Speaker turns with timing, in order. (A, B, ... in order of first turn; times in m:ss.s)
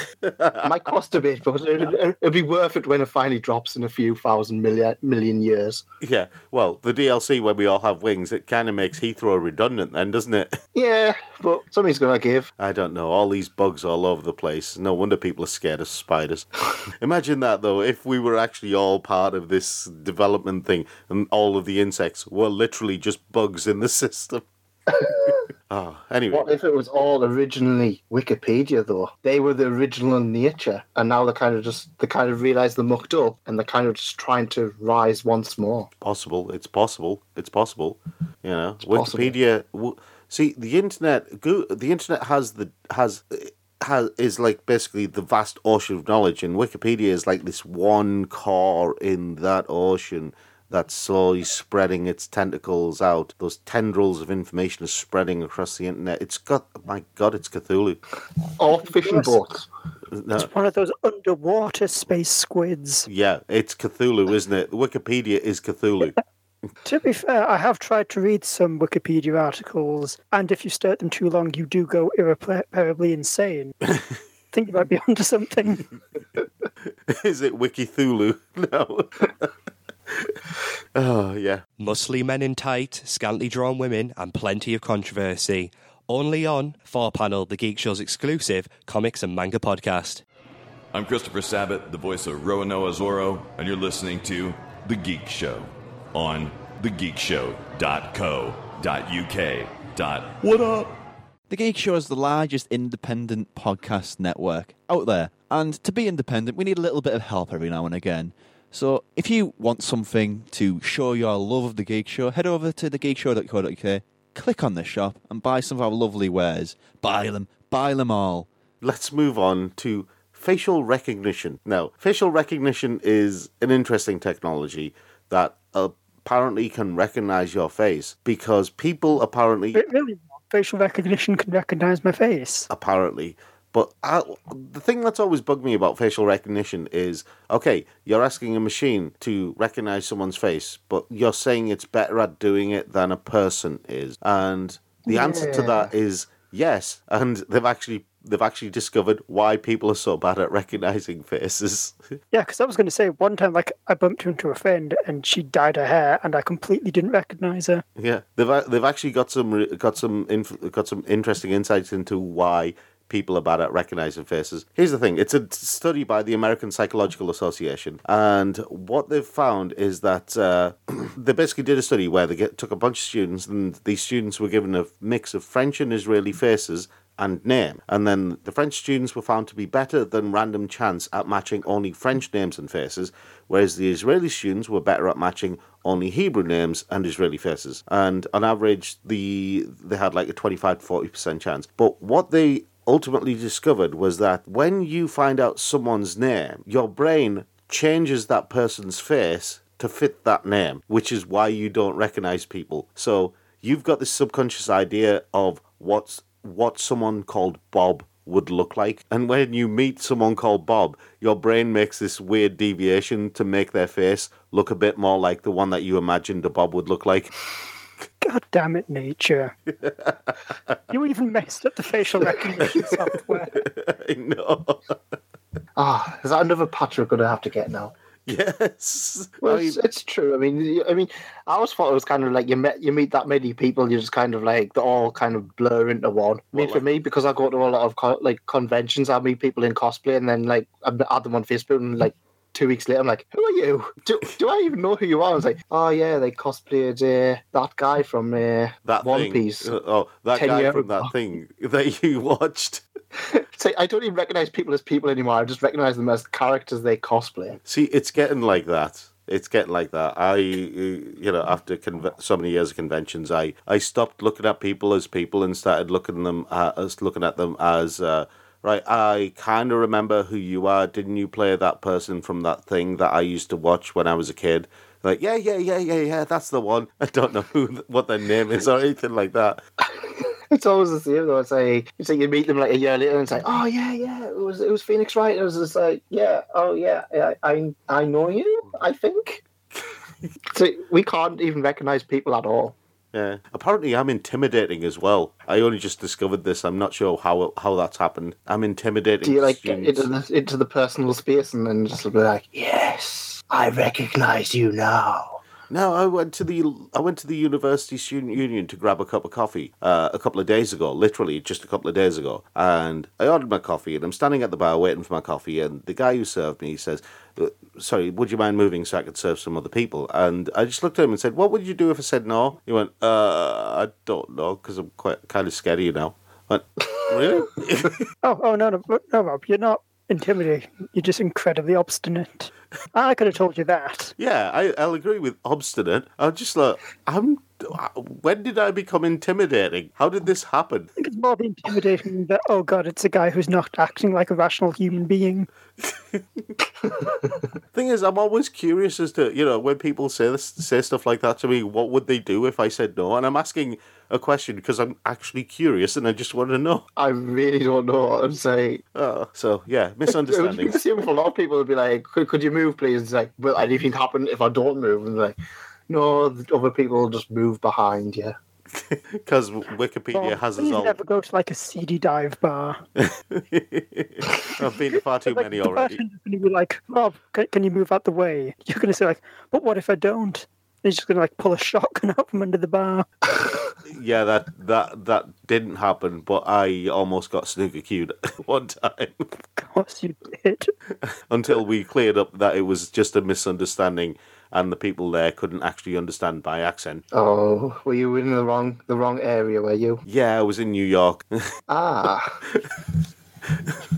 0:00.2-0:00.8 A
0:00.6-0:05.8 B
0:06.0-0:10.6 A
0:10.7-0:12.5 B
0:12.6-0:24.4 A
0:24.9-0:25.4 B
0:25.7-0:26.5 A
0:26.3-0:35.9 B
0:36.0-0:58.0 A
0:38.9-0:39.4 B
0:58.6-0:59.7 B
0:58.7-0:59.4 C
1:00.1-1:00.5 A
1:00.3-1:03.0 C
1:03.0-1:06.2 A
1:06.8-1:13.8 C
1:14.5-1:15.9 C
1:17.1-1:19.5 A
1:20.1-1:20.4 A
1:20.9-1:21.6 A
1:21.8-1:30.2 D
1:30.9-1:41.0 E
1:41.5-1:58.5 F
1:58.8-2:09.8 A
2:09.7-2:12.7 C
2:12.7-2:32.0 A
2:25.1-2:25.9 B
2:32.3-2:37.8 C
2:38.0-3:37.3 A
3:38.2-3:39.5 C
3:39.8-3:40.8 A
3:40.9-3:43.6 C
3:42.6-3:42.9 A
3:43.5-3:45.0 A
3:45.8-3:47.9 B
3:48.2-3:49.8 A
3:49.4-4:09.7 B
3:56.5-3:56.8 A
4:08.8-4:12.8 A
4:10.3-4:11.1 B
4:13.2-4:17.6 B
4:17.6-4:39.6 A
4:40.0-4:49.4 B
4:50.5-4:52.8 B
4:53.1-5:00.1 A
4:59.2-5:05.4 B
5:05.7-5:28.0 A
5:28.2-5:34.1 C
5:34.2-5:40.9 A
5:41.0-5:45.5 C
5:45.8-5:46.2 A
5:47.7-5:56.9 A
5:57.0-5:58.8 B
5:58.9-6:00.8 A
6:00.1-6:05.4 B
6:05.9-6:08.4 B
6:08.8-6:11.0 A
6:10.1-6:12.8 C
6:13.0-6:16.0 A
6:15.3-6:23.2 C
6:23.9-6:29.3 A
6:29.6-6:30.7 C
6:31.0-6:37.0 A
6:37.1-6:40.0 B
6:40.0-6:41.4 A
6:41.7-6:42.4 B